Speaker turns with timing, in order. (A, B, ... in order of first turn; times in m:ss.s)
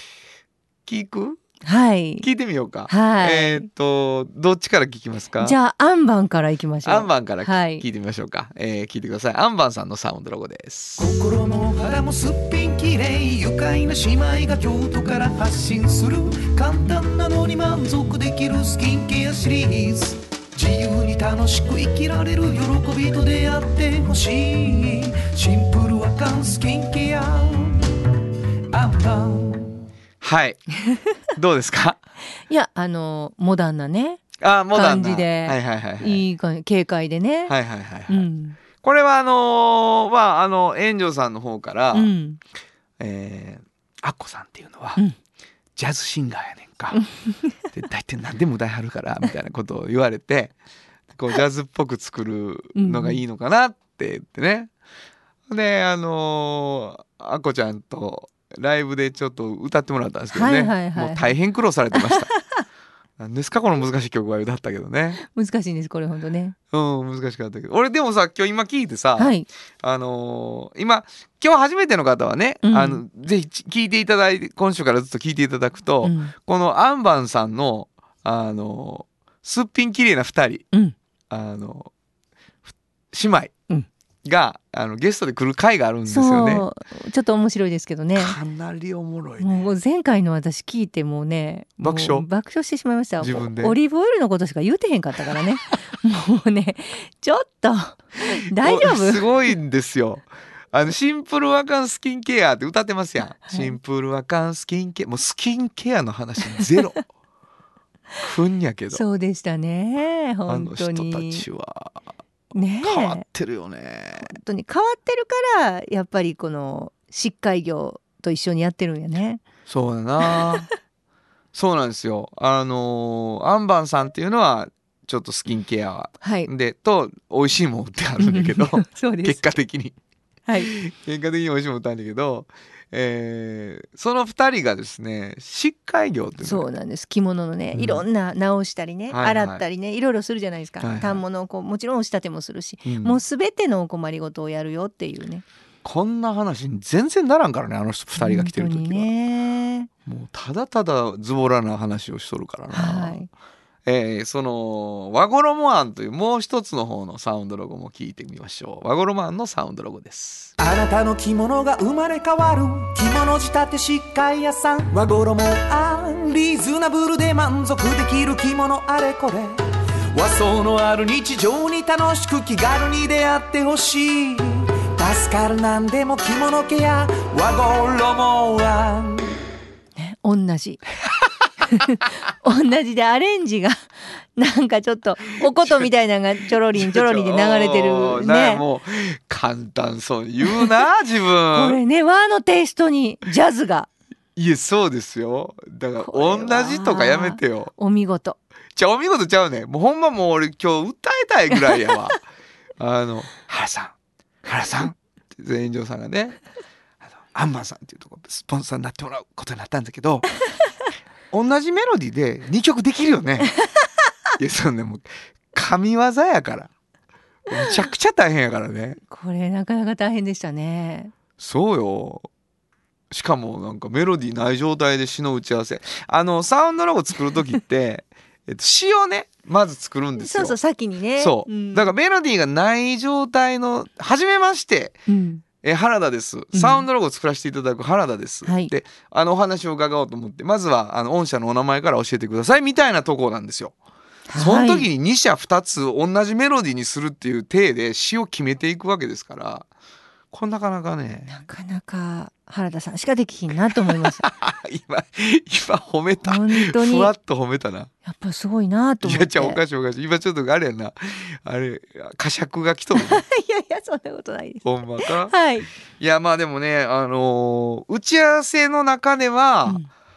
0:00.9-0:01.4 A
0:01.6-0:02.3 B
0:02.2-0:05.6 A
0:02.9-0:03.7 B
0:05.4-0:07.9 B
0:06.8-0:11.1 A
0:11.0-0:27.8 C
0:28.7-0:29.8 C
0:30.2-0:30.6 A
0:31.4-0:32.0 A
0:32.5-0:37.6 B
0:34.4-0:36.2 A
0:37.5-0:38.3 A
0:38.1-0:38.6 B
0:38.8-0:42.1 A
0:41.9-0:42.4 B
0:43.0-0:45.0 A
0:45.8-0:47.0 A
0:46.9-0:47.5 B
0:47.7-0:50.5 A
0:51.1-0:54.7 A
0:52.7-0:53.2 B
0:55.5-1:02.3 A
1:00.3-1:01.4 B
1:01.9-1:02.6 B
1:03.2-1:05.2 A
1:05.2-1:06.6 B
1:06.7-1:20.7 A
1:09.2-1:09.5 B
1:12.6-1:13.0 B
1:16.0-1:16.3 B
1:21.3-1:21.9 A
1:22.7-1:23.5 A
1:24.2-1:26.7 A
1:26.1-1:28.4 B
1:28.1-1:29.7 A
1:29.4-1:39.4 B
1:31.8-1:32.3 A
1:33.2-1:33.8 A
1:38.6-1:47.1 A
1:43.5-1:43.8 B
1:46.5-1:47.0 B
1:48.2-1:49.0 A
1:48.9-1:51.4 B
1:50.5-1:52.0 A
1:52.5-1:53.2 B
1:52.8-1:54.4 A
1:54.2-1:59.4 B
1:59.7-2:00.7 A
2:00.2-2:00.7 B
2:01.5-2:10.0 A
2:06.2-2:06.5 B
2:08.2-2:09.4 B
2:10.5-2:10.7 B
2:10.6-2:16.7 A
2:16.4-2:25.4 B
2:17.7-2:18.0 A
2:19.1-2:19.6 A
2:20.8-2:21.2 A
2:22.8-2:23.2 A
2:25.8-2:29.1 A
2:28.2-2:29.9 B
2:30.1-2:33.2 A
2:32.7-2:33.3 B
2:33.9-2:40.5 A
2:40.6-2:49.6 C
2:50.1-2:59.4 C
3:00.0-3:00.8 B
3:01.7-3:08.6 B
3:06.7-3:11.8 A
3:10.4-3:10.7 B
3:11.5-3:13.9 B
3:14.4-3:17.7 A
3:16.0-3:18.4 B
3:18.8-3:22.2 A
3:21.5-3:21.8 B
3:22.8-3:24.0 A
3:24.4-3:26.4 A
3:27.3-3:30.2 A
3:31.3-3:33.5 A
3:34.4-3:36.7 A
3:37.5-3:39.0 A
3:39.0-3:41.1 B
3:41.4-3:42.2 A
3:43.1-3:50.6 A
3:50.2-3:52.0 B
3:51.2-3:55.0 A
3:55.1-3:55.4 B
3:55.6-4:03.7 A
3:56.5-3:56.9 B
3:58.4-3:58.7 B
4:04.3-4:04.9 B
4:04.4-4:09.7 A
4:10.3-4:11.4 A
4:11.3-4:14.2 B
4:14.1-4:17.9 A
4:16.2-4:17.1 B
4:18.0-4:19.6 B
4:19.0-4:23.2 A
4:22.9-4:25.7 B
4:24.6-4:25.4 A
4:26.0-4:29.8 A